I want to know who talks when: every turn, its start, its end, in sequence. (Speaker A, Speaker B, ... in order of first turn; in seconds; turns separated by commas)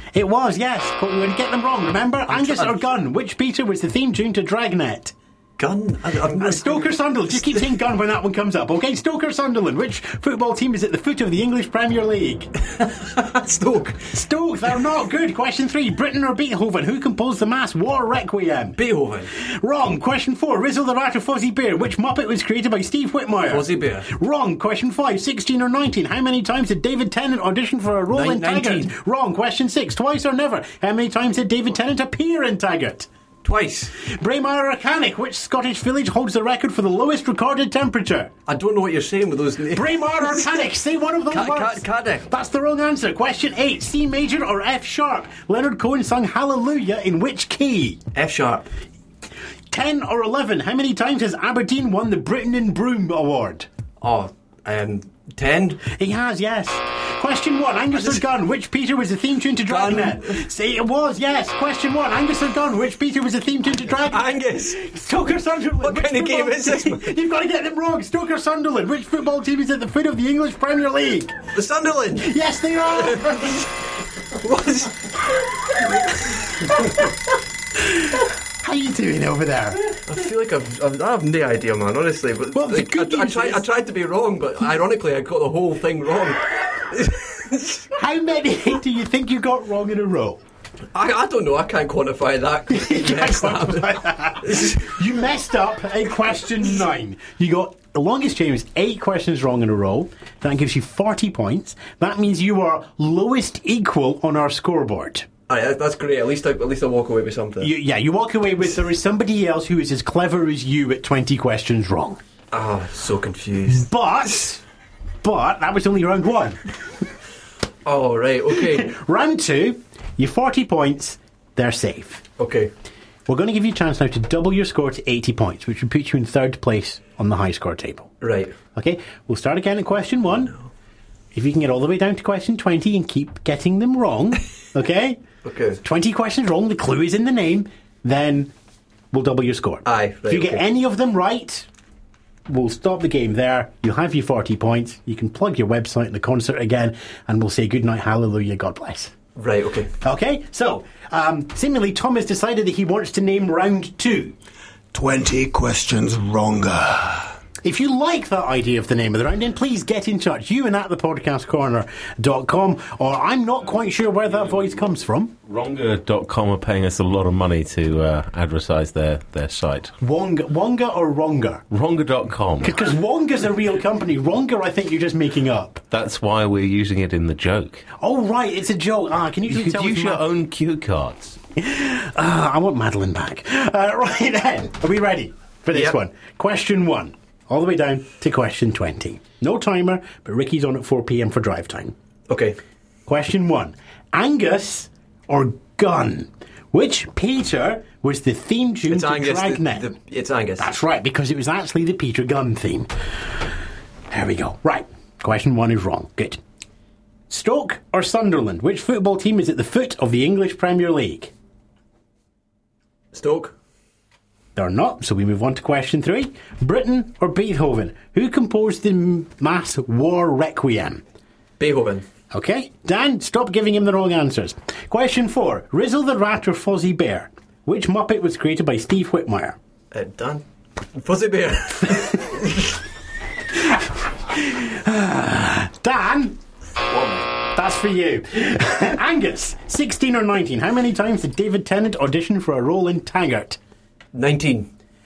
Speaker A: 0.1-5.1, Speaker B: 2.3-2.9, Speaker B: 5.6-7.0, Speaker A: 6.3-12.5, Speaker B: 12.8-14.0, Speaker A: 14.0-18.8, Speaker B: 18.8-19.3, Speaker A: 19.4-33.1, Speaker B: 23.5-24.1, Speaker B: 28.1-28.9, Speaker B: 33.4-33.9, Speaker A: 34.0-38.3, Speaker B: 38.5-40.7, Speaker A: 39.7-48.0, Speaker B: 41.3-42.3, Speaker B: 48.1-48.7, Speaker A: 49.7-53.7, Speaker B: 54.0-55.8, Speaker A: 55.9-71.4, Speaker B: 59.7-60.4, Speaker B: 63.9-65.0, Speaker B: 65.8-67.1, Speaker B: 71.5-72.3, Speaker A: 72.2-73.6, Speaker B: 73.0-73.6, Speaker B: 74.3-76.2, Speaker A: 77.8-79.9, Speaker B: 80.1-87.9, Speaker A: 82.5-83.6, Speaker A: 87.9-90.4, Speaker B: 90.9-94.9, Speaker A: 92.7-105.3, Speaker B: 105.5-107.7, Speaker A: 107.6-112.2, Speaker B: 112.5-113.9, Speaker A: 113.7-114.6, Speaker A: 115.2-116.7, Speaker B: 117.9-118.9, Speaker A: 118.6-122.2, Speaker B: 122.4-122.7, Speaker A: 123.3-128.1, Speaker B: 128.2-128.5, Speaker A: 128.8-130.6, Speaker A: 131.3-135.2, Speaker B: 135.4-135.8, Speaker A: 135.8-138.5, Speaker A: 139.1-141.7, Speaker B: 139.8-140.7, Speaker A: 142.5-149.1, Speaker B: 149.4-149.9, Speaker A: 150.0-154.3, Speaker C: 154.9-157.3, Speaker A: 157.6-165.3, Speaker D: 165.5-169.9, Speaker A: 170.0-171.7, Speaker D: 171.7-172.7, Speaker A: 172.6-175.8, Speaker D: 175.9-177.8, Speaker A: 178.0-180.3, Speaker D: 179.5-181.4, Speaker A: 181.6-191.9, Speaker B: 192.3-192.6, Speaker A: 193.1-199.8, Speaker B: 198.9-200.7, Speaker A: 200.6-202.9, Speaker A: 204.1-206.4, Speaker A: 207.3-211.3, Speaker B: 213.1-213.5, Speaker A: 214.6-221.0, Speaker B: 221.6-222.1, Speaker A: 222.3-229.6, Speaker B: 229.9-230.4, Speaker B: 230.9-232.8, Speaker A: 233.6-236.4, Speaker B: 236.9-237.3, Speaker A: 237.6-243.6, Speaker B: 244.1-244.7